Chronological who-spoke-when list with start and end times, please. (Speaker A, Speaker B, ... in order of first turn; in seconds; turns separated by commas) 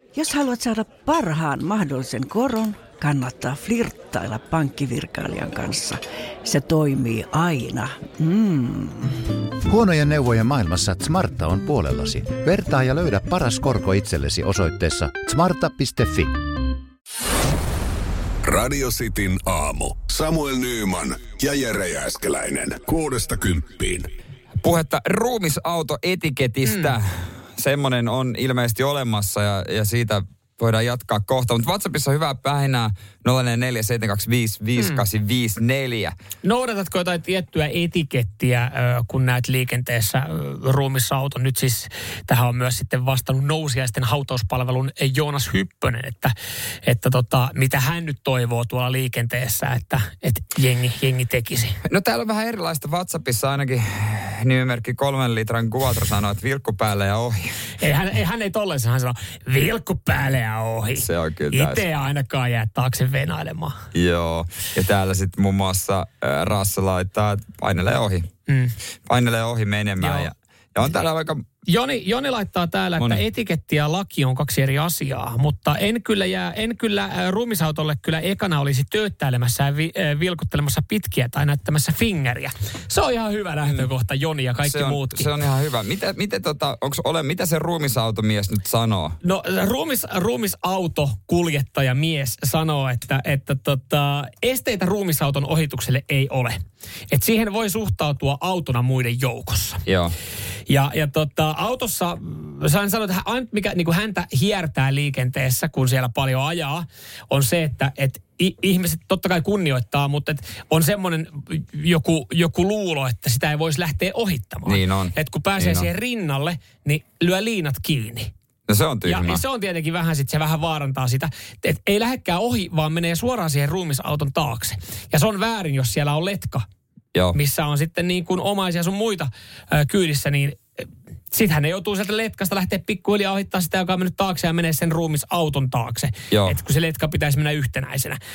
Speaker A: 0.1-9.2, Speaker B: 9.7-16.3, Speaker C: 18.4-24.1, Speaker D: 24.6-36.1, Speaker E: 26.7-26.9, Speaker E: 36.4-51.8, Speaker D: 51.9-57.4, Speaker E: 57.8-63.8, Speaker D: 61.0-61.9, Speaker D: 63.9-68.3, Speaker E: 68.5-68.7, Speaker D: 69.1-71.4, Speaker E: 70.0-70.3, Speaker E: 71.7-85.3, Speaker D: 73.0-73.2, Speaker D: 84.6-89.2, Speaker E: 89.2-96.6, Speaker E: 97.1-99.8, Speaker D: 99.9-100.2, Speaker E: 100.7-118.3, Speaker D: 114.7-115.9, Speaker D: 118.7-119.4, Speaker E: 119.0-126.7, Speaker E: 127.3-130.6, Speaker E: 131.3-138.2